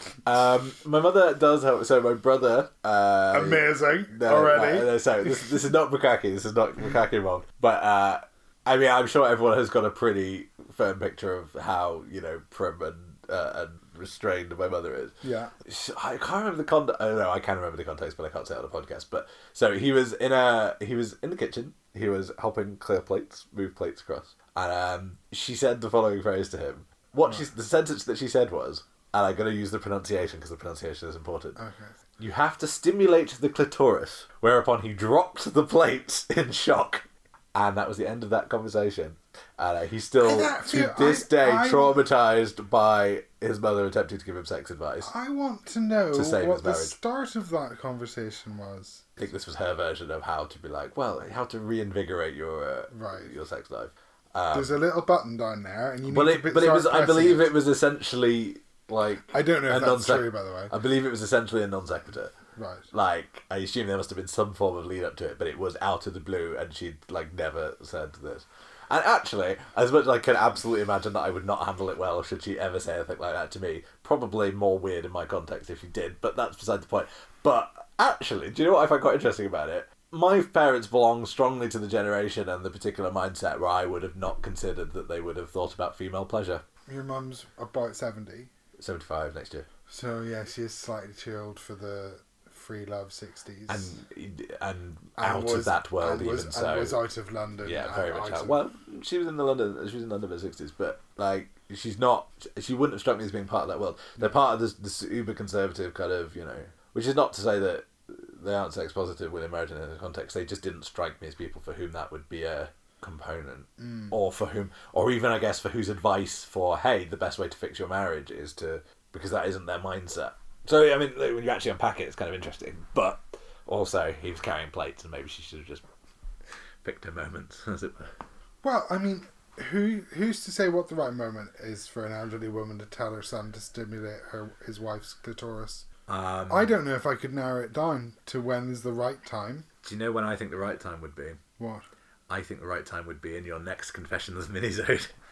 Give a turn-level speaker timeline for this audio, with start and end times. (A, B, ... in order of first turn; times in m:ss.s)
0:00.2-0:31.6 A
0:03.3-0:05.6 B
0:15.2-0:15.5 B
0:31.6-0:32.0 B
0:32.2-0:45.1 A
0:40.2-0:42.1 B
0:45.0-0:49.1 B
0:46.1-0:47.0 A
0:49.2-0:54.8 A
0:52.9-0:53.3 B
0:54.5-0:57.5 B
0:56.0-1:02.3 A
0:59.3-1:00.8 B
1:02.6-1:02.9 B
1:02.9-1:26.6 A
1:26.9-1:28.5 B
1:28.8-1:29.6 A
1:29.9-1:34.0 B
1:33.7-1:37.0 A
1:35.2-1:38.6 B
1:37.6-2:05.8 A
1:53.8-1:54.1 B
2:06.8-2:08.2 A
2:08.6-2:15.9 B
2:16.1-2:16.7 A
2:16.5-2:19.7 B
2:19.8-2:21.4 A
2:21.6-2:21.8 B
2:22.3-2:25.1 A